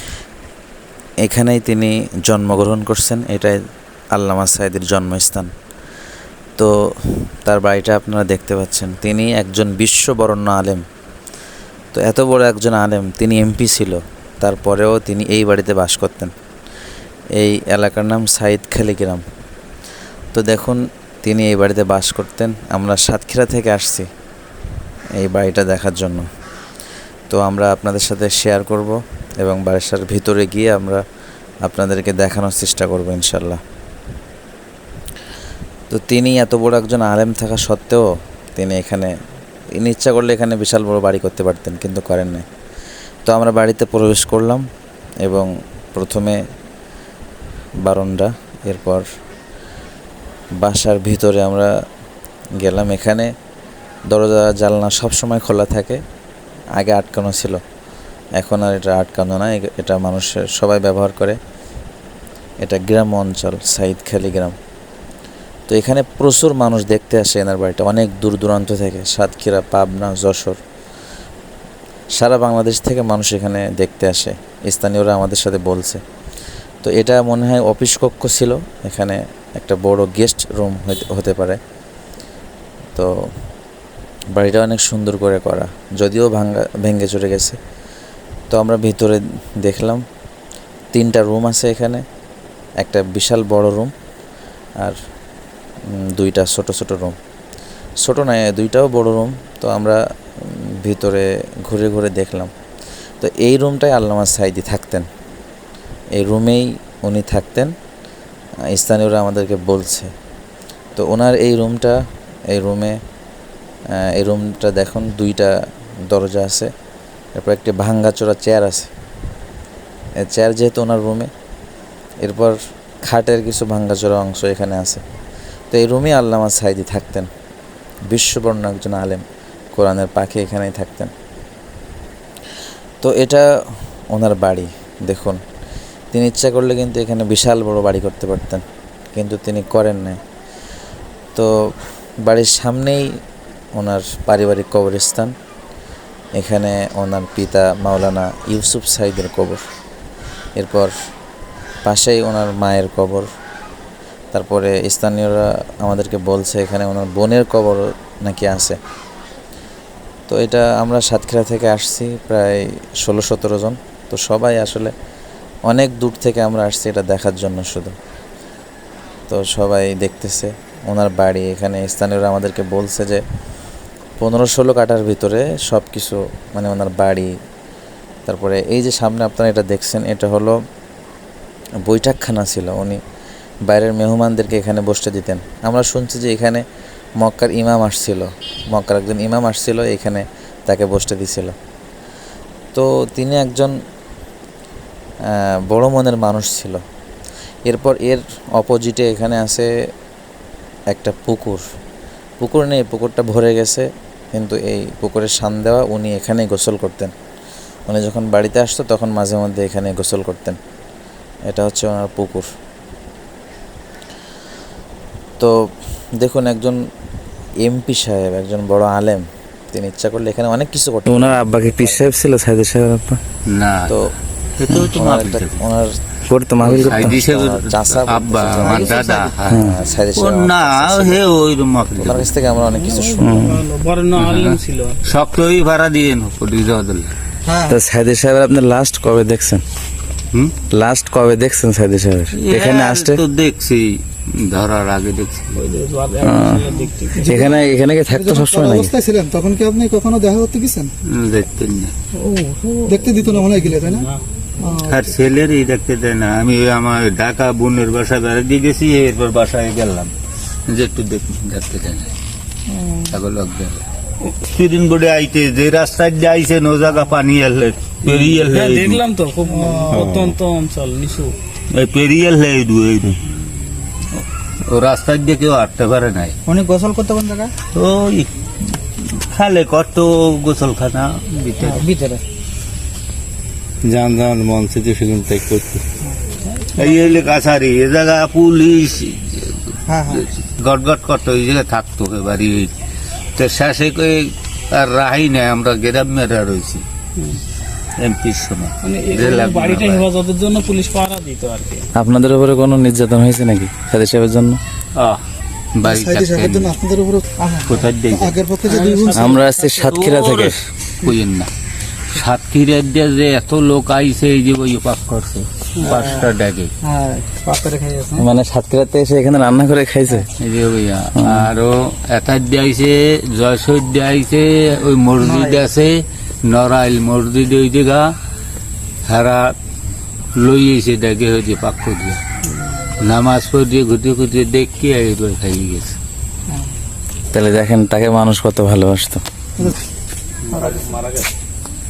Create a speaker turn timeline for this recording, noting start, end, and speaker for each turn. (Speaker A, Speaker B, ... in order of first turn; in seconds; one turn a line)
Speaker A: 1.2-3.6
Speaker A: 4.1-5.5
Speaker A: 7.4-10.8
Speaker A: 11.9-16.3
Speaker A: 17.4-19.2
Speaker A: 20.3-24.1
Speaker A: 25.2-26.3
Speaker A: 27.3-31.0
Speaker A: 31.6-33.6
Speaker A: 35.9-38.0
Speaker A: 38.5-39.1
Speaker A: 39.8-42.4
Speaker A: 43.2-44.6
Speaker A: 45.2-46.4
Speaker A: 47.8-49.0
Speaker A: 50.6-51.7
Speaker A: 52.6-53.3
Speaker A: 54.1-56.0
Speaker A: 56.8-57.6
Speaker A: 58.4-61.4
Speaker A: 62.6-64.5
Speaker A: 65.7-70.6
Speaker A: 72.2-76.0
Speaker A: 76.8-81.6
Speaker A: 84.3-87.6
Speaker A: 88.5-90.0
Speaker A: 90.9-92.0
Speaker A: 92.8-93.9
Speaker A: 96.0-97.1
Speaker A: 98.0-102.5
Speaker A: 103.2-105.1
Speaker A: 106.1-107.7
Speaker A: 108.7-110.1
Speaker A: 111.0-112.0
Speaker A: 112.5-113.0
Speaker A: 114.0-115.6
Speaker A: 116.1-116.7
Speaker A: 117.3-118.9
Speaker A: 120.2-121.3
Speaker A: 122.2-125.0
Speaker A: 125.7-127.3
Speaker A: 128.1-129.2
Speaker A: 129.7-131.1
Speaker A: 133.0-133.5
Speaker A: 134.1-135.4
Speaker A: 136.1-138.6
Speaker A: 139.1-140.2
Speaker A: 142.2-143.1
Speaker A: 143.8-145.3
Speaker A: 146.4-149.6
Speaker A: 150.6-150.9
Speaker A: 151.8-153.3
Speaker A: 154.3-158.8
Speaker A: 160.3-164.9
Speaker A: 165.7-167.9
Speaker A: 169.3-173.2
Speaker A: 174.2-177.3
Speaker A: 178.3-180.6
Speaker A: 181.8-183.0
Speaker A: 183.7-186.6
Speaker A: 187.2-191.5
Speaker A: 192.7-193.7
Speaker A: 195.3-196.8
Speaker A: 197.7-199.7
Speaker A: 200.9-201.6
Speaker A: 202.4-207.1
Speaker A: 207.9-210.6
Speaker A: 211.5-212.5
Speaker A: 216.2-216.8
Speaker A: 217.6-222.1
Speaker B: 221.1-223.2
Speaker C: 223.5-224.0
Speaker C: 224.6-225.6
Speaker A: 224.7-225.9
Speaker B: 226.3-227.2
Speaker A: 226.6-231.2
Speaker C: 226.6-232.3
Speaker D: 228.7-229.3
Speaker B: 229.5-229.8
Speaker A: 232.0-233.6
Speaker E: 232.8-235.0
Speaker B: 233.2-233.6
Speaker C: 234.2-237.1
Speaker D: 237.4-237.7
Speaker A: 237.7-239.6
Speaker A: 240.7-243.2
Speaker C: 242.3-245.5
Speaker E: 245.5-247.3
Speaker B: 246.2-246.6
Speaker D: 247.1-250.9
Speaker A: 247.2-248.9
Speaker B: 247.3-248.9
Speaker C: 251.1-251.9
Speaker E: 252.2-254.2
Speaker D: 252.4-254.1
Speaker D: 254.6-255.1
Speaker C: 254.8-260.1
Speaker C: 260.7-262.1
Speaker D: 262.7-263.1
Speaker C: 263.1-263.8
Speaker C: 264.4-269.0
Speaker E: 268.1-271.4
Speaker D: 269.4-270.2
Speaker C: 269.9-270.3
Speaker C: 271.7-273.2
Speaker C: 274.1-276.4
Speaker D: 276.5-277.5
Speaker C: 277.7-281.9
Speaker D: 281.6-282.2
Speaker C: 283.8-285.8
Speaker C: 286.7-292.7
Speaker D: 289.9-290.3
Speaker C: 293.3-296.8
Speaker C: 298.0-300.1
Speaker E: 298.8-301.9
Speaker A: 301.9-304.6
Speaker C: 304.9-305.2
Speaker C: 305.7-306.8
Speaker D: 305.8-309.4
Speaker C: 307.6-308.4
Speaker E: 308.6-309.9
Speaker A: 309.1-310.2
Speaker B: 309.2-310.5
Speaker C: 309.8-311.5
Speaker C: 312.1-316.7
Speaker D: 315.9-316.3
Speaker D: 316.8-318.3
Speaker A: 318.2-320.3
Speaker B: 319.7-320.2
Speaker C: 320.4-328.1
Speaker D: 325.2-325.6
Speaker C: 329.1-329.6
Speaker C: 330.4-332.2
Speaker C: 333.0-335.9
Speaker A: 337.3-339.2
Speaker C: 340.5-341.3
Speaker D: 340.5-340.9